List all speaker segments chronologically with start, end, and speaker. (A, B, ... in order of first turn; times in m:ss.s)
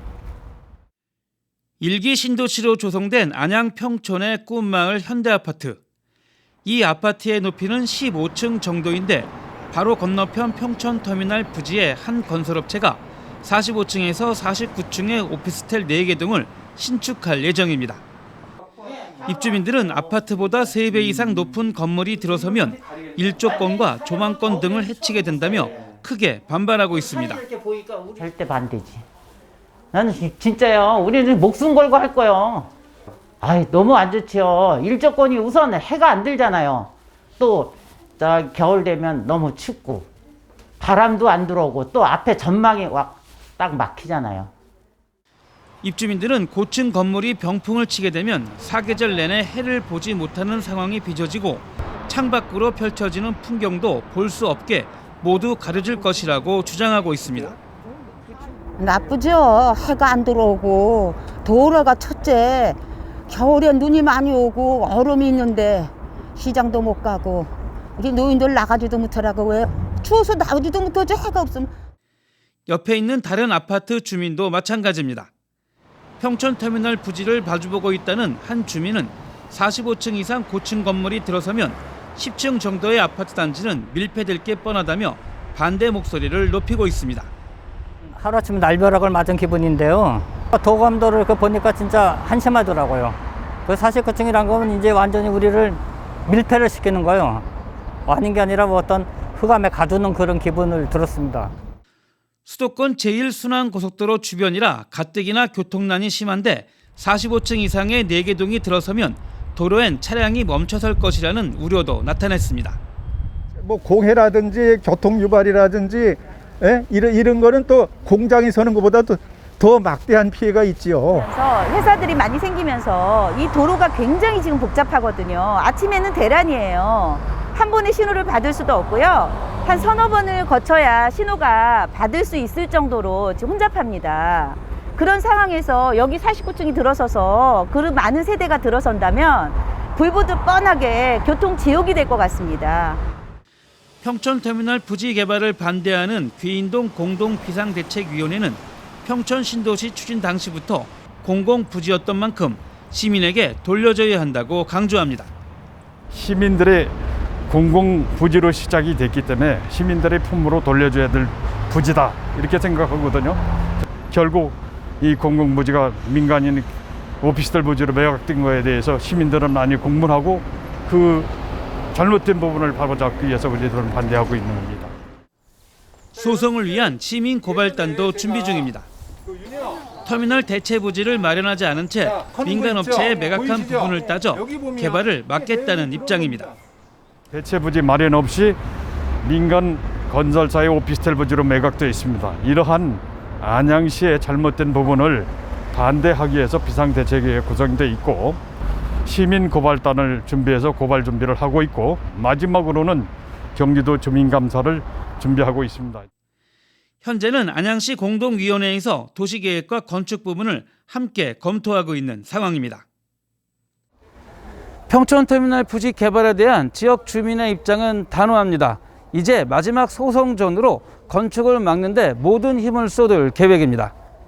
0:01.8-0:05.8 A
0:06.6-0:18.0 A
0:19.2-0:27.4 A
0:23.6-0:25.8 B
0:26.9-0:29.0 B
0:29.9-0:32.7 B
0:33.4-0:40.1 B
0:40.8-0:44.5 B
0:45.8-0:57.6 A
0:58.8-1:02.8 C
1:03.3-1:11.7 C
1:12.7-1:15.3 A
1:16.2-1:27.3 A
1:28.2-1:37.4 D
1:38.1-1:41.5 D
1:42.5-1:52.8 A
1:53.6-2:01.3 E
2:01.1-2:23.0 F
2:24.0-2:35.3 A
2:36.1-2:37.0 G
2:37.5-2:43.4 G
2:44.1-2:46.7 G
2:47.2-2:51.3 G
2:51.9-2:54.9 G
2:56.2-2:58.9 A
3:00.0-3:06.5 A
3:07.3-3:08.6 G
3:09.2-3:18.4 G
3:19.0-3:26.1 G
3:27.0-3:32.8 A
3:34.9-3:43.9 A